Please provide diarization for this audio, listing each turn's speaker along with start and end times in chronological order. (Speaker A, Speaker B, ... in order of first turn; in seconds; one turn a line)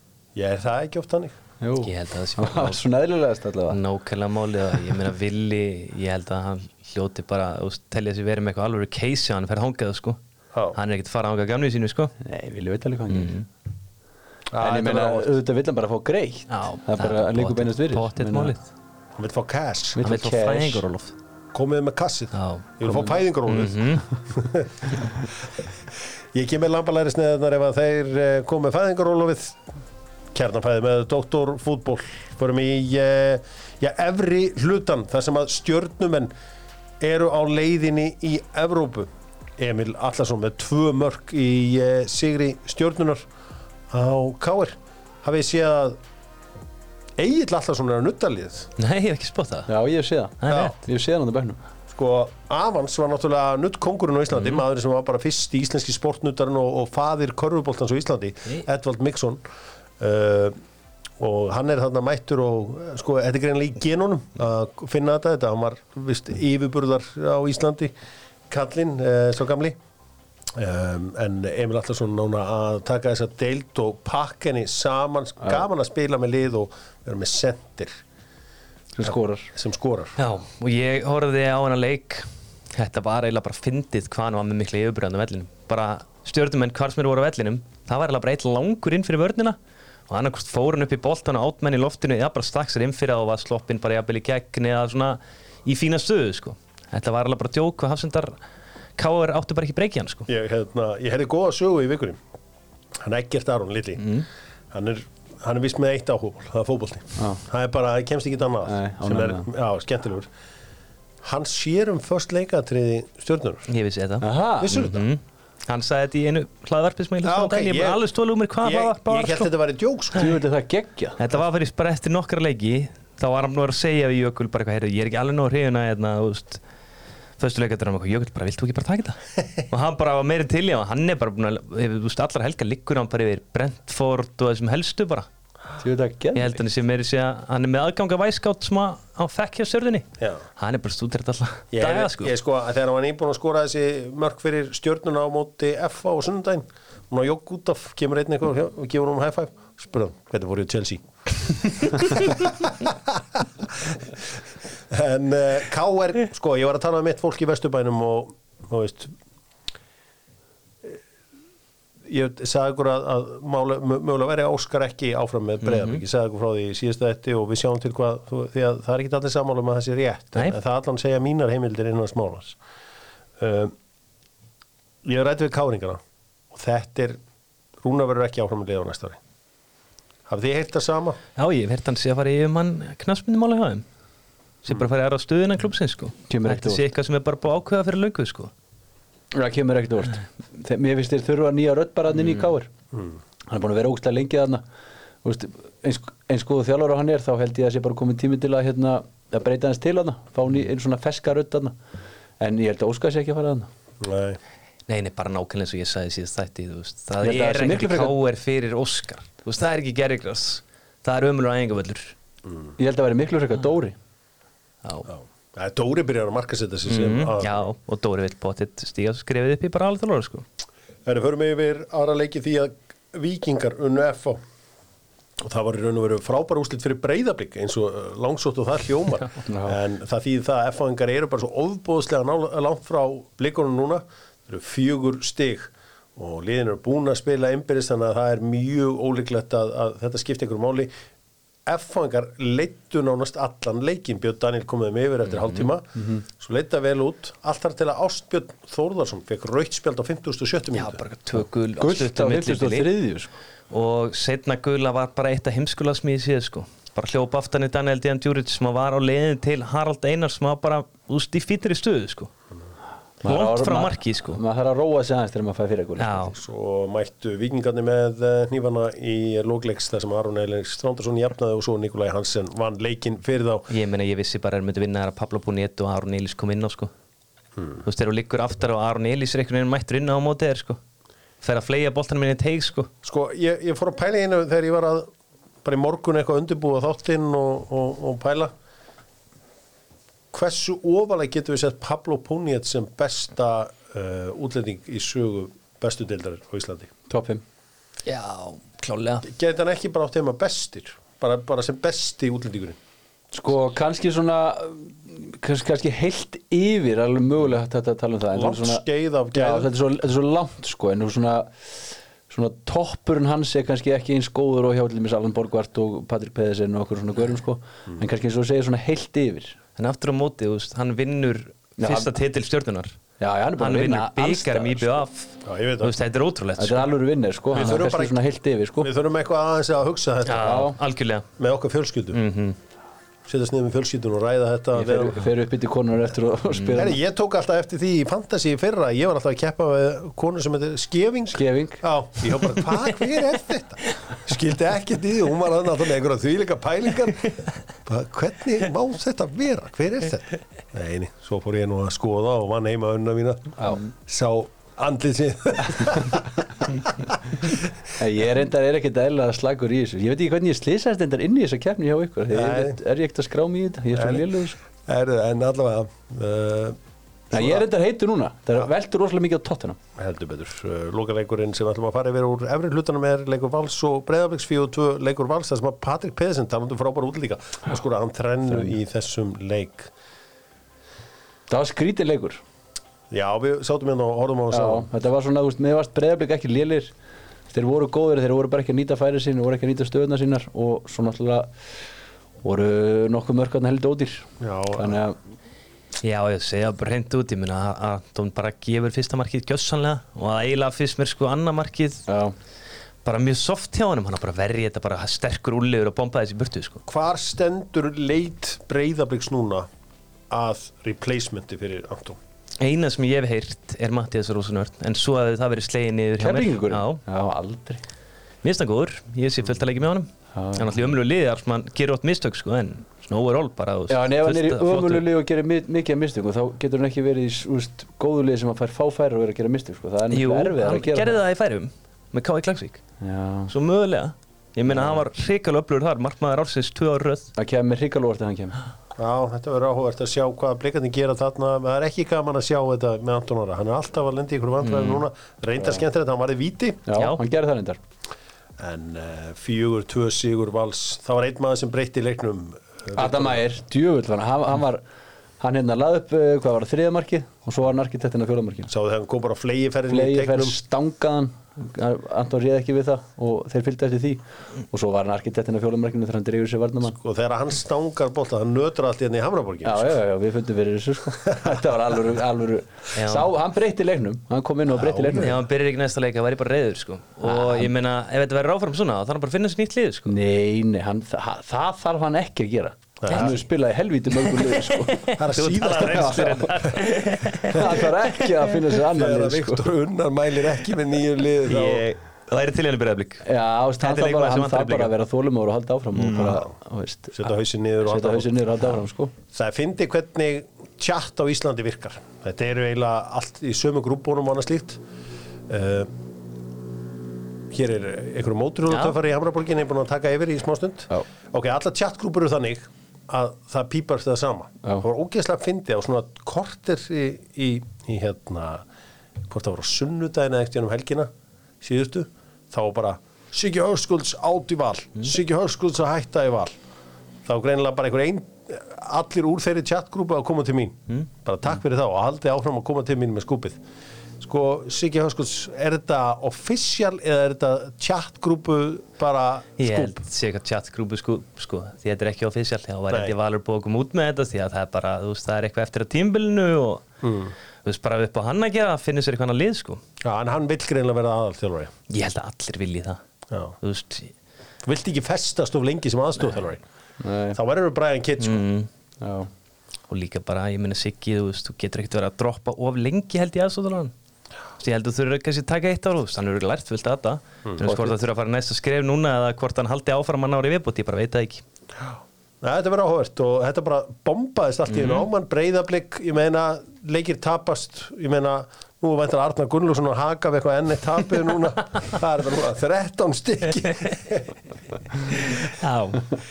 Speaker A: 0.3-1.4
Speaker B: 1.6-3.8
Speaker C: 1.8-2.8
Speaker C: 3.7-10.2
Speaker C: 10.7-12.1
Speaker B: 12.2-13.4
Speaker C: 13.1-13.4
Speaker A: 14.5-15.4
Speaker B: 14.6-18.5
Speaker C: 16.5-18.6
Speaker A: 19.2-20.0
Speaker B: 19.9-20.8
Speaker C: 20.0-21.1
Speaker A: 21.5-25.4
Speaker C: 22.3-22.7
Speaker C: 23.5-24.0
Speaker A: 26.3-29.6
Speaker A: 30.3-36.3
Speaker A: 37.0-43.2
Speaker A: 43.9-46.0
Speaker A: 47.2-48.7
Speaker C: 48.8-49.7
Speaker B: 49.7-51.6
Speaker C: 50.4-50.7
Speaker A: 50.5-50.7
Speaker A: 51.9-59.4
Speaker A: 60.0-60.6
Speaker A: 61.2-67.9
Speaker A: 68.5-69.8
Speaker A: 70.5-78.0
Speaker B: 78.9-79.5
Speaker A: 79.5-80.2
Speaker C: 80.2-89.6
Speaker C: 90.1-98.3
Speaker C: 99.0-100.3
Speaker A: 100.3-102.2
Speaker A: 103.0-104.1
Speaker C: 104.0-104.3
Speaker A: 104.7-110.3
Speaker B: 108.6-109.5
Speaker A: 111.2-113.7
Speaker C: 113.7-119.5
Speaker B: 114.2-114.8
Speaker A: 114.6-115.1
Speaker A: 117.2-118.0
Speaker A: 118.6-120.3
Speaker B: 120.1-121.2
Speaker C: 121.2-126.6
Speaker C: 127.4-135.3
Speaker B: 135.8-136.6
Speaker C: 136.3-140.1
Speaker C: 140.6-142.3
Speaker A: 141.7-154.2
Speaker A: 154.9-159.1
Speaker A: 162.1-172.6
Speaker C: 165.6-166.0
Speaker A: 173.4-173.7
Speaker A: 175.0-176.0
Speaker A: 176.5-177.2
Speaker A: 177.8-179.2
Speaker A: 180.3-181.2
Speaker C: 181.3-183.8
Speaker C: 184.6-188.5
Speaker B: 186.3-186.8
Speaker B: 189.3-192.7
Speaker B: 193.5-194.6
Speaker B: 195.2-201.7
Speaker B: 202.4-203.7
Speaker A: 204.0-204.4
Speaker C: 204.9-212.1
Speaker B: 207.2-208.2
Speaker B: 212.8-213.9
Speaker A: 215.1-217.6
Speaker C: 216.9-220.4
Speaker A: 221.1-224.4
Speaker A: 225.4-240.9
Speaker B: 229.4-229.8
Speaker A: 241.7-251.0
Speaker C: 245.4-245.7
Speaker B: 246.0-246.2
Speaker C: 250.7-252.9
Speaker B: 251.8-253.3
Speaker C: 253.7-262.3
Speaker B: 263.2-266.3
Speaker C: 263.2-264.4
Speaker C: 266.0-266.4
Speaker A: 266.3-273.7
Speaker C: 273.7-276.9
Speaker A: 277.6-277.8
Speaker C: 277.8-280.8
Speaker C: 281.4-282.9
Speaker A: 283.0-285.1
Speaker A: 285.6-288.5
Speaker A: 290.3-296.9
Speaker B: 297.1-297.4
Speaker C: 298.0-299.2
Speaker A: 299.2-302.8
Speaker B: 303.3-319.6
Speaker A: 308.3-309.7
Speaker C: 319.8-323.0
Speaker B: 321.8-322.1
Speaker B: 323.2-324.9
Speaker C: 323.6-326.9
Speaker A: 325.4-325.9
Speaker B: 326.6-328.9
Speaker A: 327.5-328.2
Speaker A: 328.8-330.5
Speaker C: 330.2-331.2
Speaker B: 330.4-330.8
Speaker A: 331.4-332.2
Speaker C: 332.1-332.6
Speaker A: 333.2-335.2
Speaker B: 334.7-337.0
Speaker A: 336.7-357.7
Speaker B: 341.3-341.8
Speaker B: 353.6-353.9
Speaker B: 358.0-364.6
Speaker A: 362.3-362.8
Speaker A: 363.9-366.8
Speaker A: 367.3-367.6
Speaker B: 367.3-369.8
Speaker A: 370.0-379.9
Speaker B: 381.5-382.4
Speaker A: 383.1-384.9
Speaker B: 384.5-386.9
Speaker B: 387.5-391.5
Speaker B: 392.4-395.2
Speaker A: 394.4-395.0
Speaker C: 396.0-402.0
Speaker B: 402.1-402.3
Speaker C: 403.0-406.8
Speaker A: 406.9-409.7
Speaker A: 410.3-412.2
Speaker C: 412.6-417.0
Speaker B: 416.2-417.8
Speaker C: 418.4-425.1
Speaker B: 420.3-420.8
Speaker B: 423.9-431.2
Speaker C: 430.1-432.8
Speaker B: 433.0-433.5
Speaker C: 433.5-437.3
Speaker B: 434.7-435.0
Speaker B: 437.4-438.6
Speaker A: 439.0-446.8
Speaker C: 444.6-445.0
Speaker B: 446.9-447.8
Speaker C: 446.9-447.2
Speaker A: 448.6-453.4
Speaker B: 452.9-454.8
Speaker B: 455.4-458.7
Speaker A: 458.7-460.6
Speaker B: 459.9-467.0
Speaker A: 466.9-470.0
Speaker B: 469.6-475.3
Speaker A: 471.2-471.6
Speaker C: 472.9-473.3
Speaker A: 474.7-475.4
Speaker C: 475.1-480.1
Speaker B: 477.2-477.7
Speaker B: 480.1-485.1
Speaker A: 483.0-483.3
Speaker C: 483.1-483.4
Speaker C: 484.3-487.9
Speaker A: 485.1-486.9
Speaker B: 485.8-486.5
Speaker A: 487.4-487.8
Speaker B: 487.5-489.7
Speaker A: 488.7-492.0
Speaker C: 491.5-493.2
Speaker B: 493.2-497.3
Speaker C: 493.8-494.9
Speaker C: 496.0-496.4
Speaker A: 497.1-498.3
Speaker B: 497.8-499.1
Speaker A: 499.3-504.8
Speaker A: 505.5-505.9
Speaker A: 507.5-518.6
Speaker A: 519.3-521.1
Speaker A: 521.6-526.5
Speaker A: 527.2-533.6
Speaker A: 534.2-540.0
Speaker C: 539.6-546.8
Speaker A: 547.0-547.3
Speaker C: 547.6-549.8
Speaker A: 550.0-551.7
Speaker C: 551.9-553.0
Speaker A: 553.3-553.5
Speaker C: 553.6-554.1
Speaker A: 554.6-556.6
Speaker B: 557.0-557.4
Speaker A: 557.3-558.4
Speaker C: 558.2-558.7
Speaker B: 559.0-559.3
Speaker C: 559.9-563.9
Speaker C: 564.6-571.4
Speaker A: 567.4-567.8
Speaker B: 567.6-567.9
Speaker A: 571.7-584.3
Speaker C: 574.7-575.0
Speaker A: 585.0-585.5
Speaker C: 585.1-586.1